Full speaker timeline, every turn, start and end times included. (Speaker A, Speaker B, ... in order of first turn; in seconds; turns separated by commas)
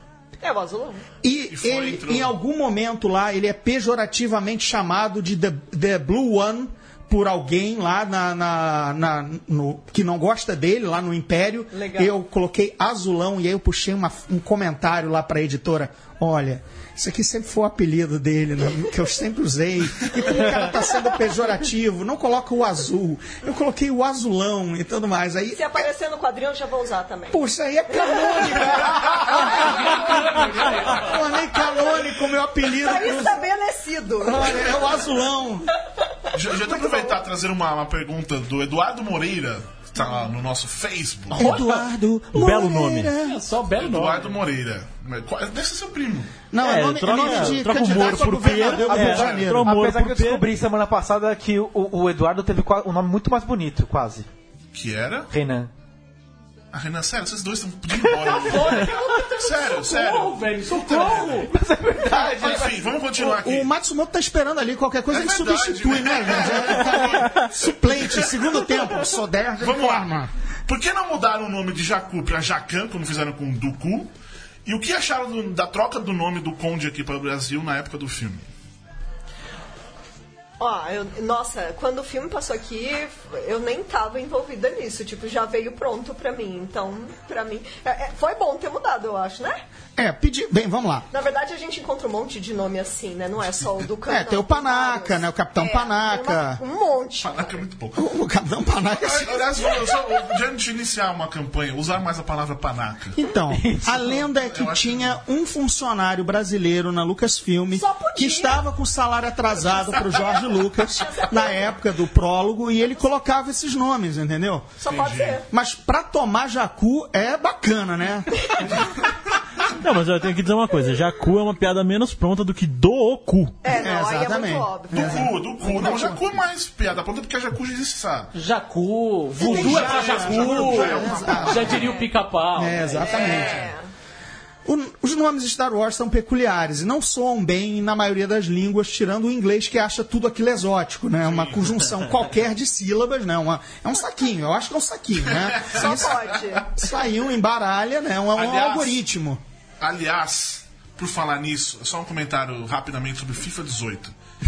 Speaker A: 0.4-1.1, Speaker B: 1.2-25.9, Speaker C: 1.5-2.3, Speaker A: 11.7-12.1, Speaker A: 25.5-31.1, Speaker B: 27.3-33.4, Speaker A: 31.6-32.0, Speaker A: 32.7-35.0, Speaker B: 34.2-35.7, Speaker C: 36.3-41.6, Speaker A: 36.5-37.2, Speaker B: 41.3-43.4, Speaker D: 41.4-41.8, Speaker E: 42.3-43.2, Speaker D: 43.2-44.3, Speaker C: 43.7-46.4, Speaker B: 46.5-49.7, Speaker E: 46.6-50.4, Speaker C: 48.6-49.5, Speaker F: 48.6-54.3, Speaker C: 54.7-55.3, Speaker F: 55.3-55.7, Speaker C: 56.7-61.5, Speaker D: 58.2-61.5, Speaker F: 61.0-62.8, Speaker C: 62.1-63.7, Speaker B: 63.2-70.3, Speaker C: 65.1-68.7, Speaker C: 69.6-74.1, Speaker C: 74.6-78.5, Speaker A: 80.6-89.6, Speaker B: 90.0-91.1, Speaker A: 91.1-97.3, Speaker B: 94.1-96.6, Speaker C: 97.2-98.1, Speaker B: 97.9-99.7, Speaker C: 98.9-103.2, Speaker B: 103.2-114.7, Speaker F: 103.5-104.1, Speaker C: 104.2-105.2, Speaker A: 107.7-108.6, Speaker A: 109.5-111.7, Speaker A: 114.8-115.4, Speaker C: 114.8-115.4, Speaker B: 115.5-118.6, Speaker E: 119.7-123.6, Speaker A: 123.6-125.3, Speaker B: 123.7-126.3, Speaker C: 124.9-128.3, Speaker D: 128.3-133.4, Speaker B: 129.4-131.8, Speaker C: 129.4-131.9, Speaker A: 129.4-130.0, Speaker A: 131.7-132.1, Speaker B: 132.5-133.7, Speaker A: 133.0-133.8, Speaker B: 134.6-149.4, Speaker C: 141.2-141.9, Speaker C: 145.3-146.4, Speaker A: 145.7-147.1, Speaker C: 148.3-149.0, Speaker C: 149.8-154.1